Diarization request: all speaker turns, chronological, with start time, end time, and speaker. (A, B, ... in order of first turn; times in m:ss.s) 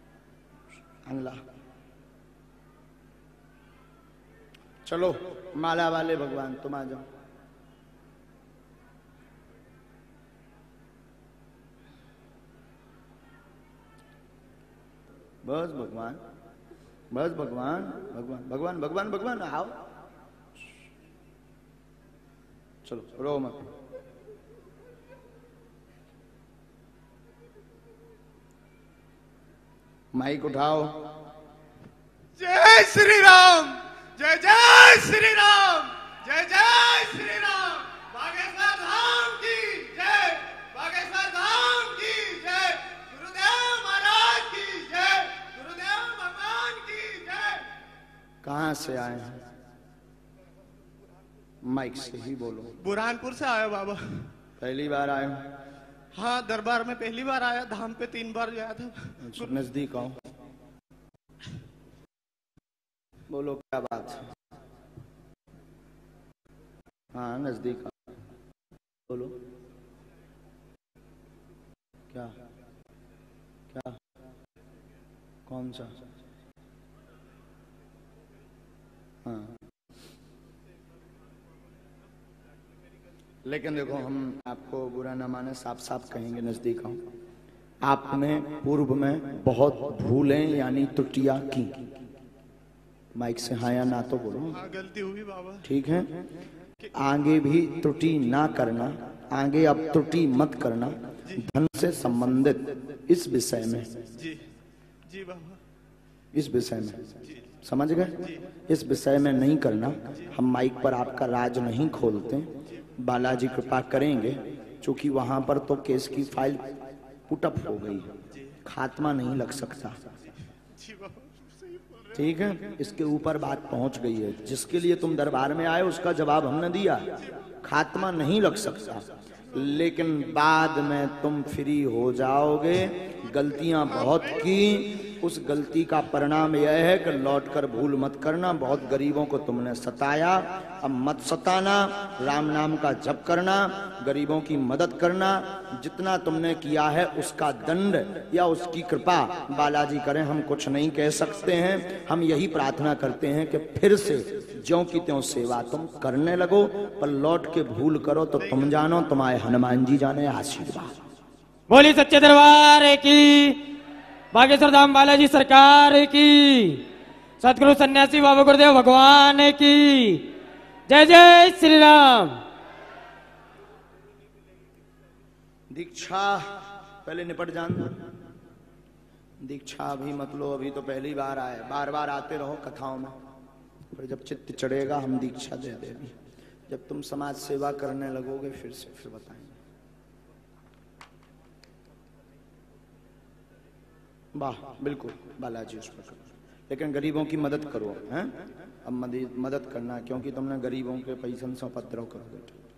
0:01.0-0:01.4 A
0:04.8-0:07.0 A
0:15.4-0:16.2 A
0:17.1-0:19.8 A
0:22.8-0:23.6 A
0:30.1-0:31.1 A
0:32.4-0:47.7 B
0:48.4-0:49.4 A
0:51.6-0:52.8 A
0:52.8-0:54.3 B
0:54.6-0:55.5 A
0:56.2-0:59.6 B
0:59.2-1:00.3 A
1:03.3-1:04.3 A
1:07.1-1:08.1 A
1:09.1-1:09.4 A
1:12.1-1:12.4 A
1:13.7-1:14.0 A
1:15.5-1:16.0 A
1:19.2-1:19.6 A
1:23.4-1:27.0 A
1:27.8-1:31.9 A
1:33.2-1:34.6 A
1:34.6-1:35.7 B
1:35.6-1:36.2 A
1:36.9-1:44.1 A
1:44.2-1:44.4 B
1:45.1-1:45.6 B
1:46.3-2:00.0 A
2:00.8-2:02.2 B
2:02.1-2:41.0 A
2:41.7-2:43.6 C
2:44.3-2:46.8 C
2:47.4-2:50.3 C
2:50.9-2:52.4 C
2:55.7-2:58.0 A
2:59.4-3:03.2 A
3:03.9-3:06.1 A
3:06.7-3:09.6 A
3:14.4-3:22.6 A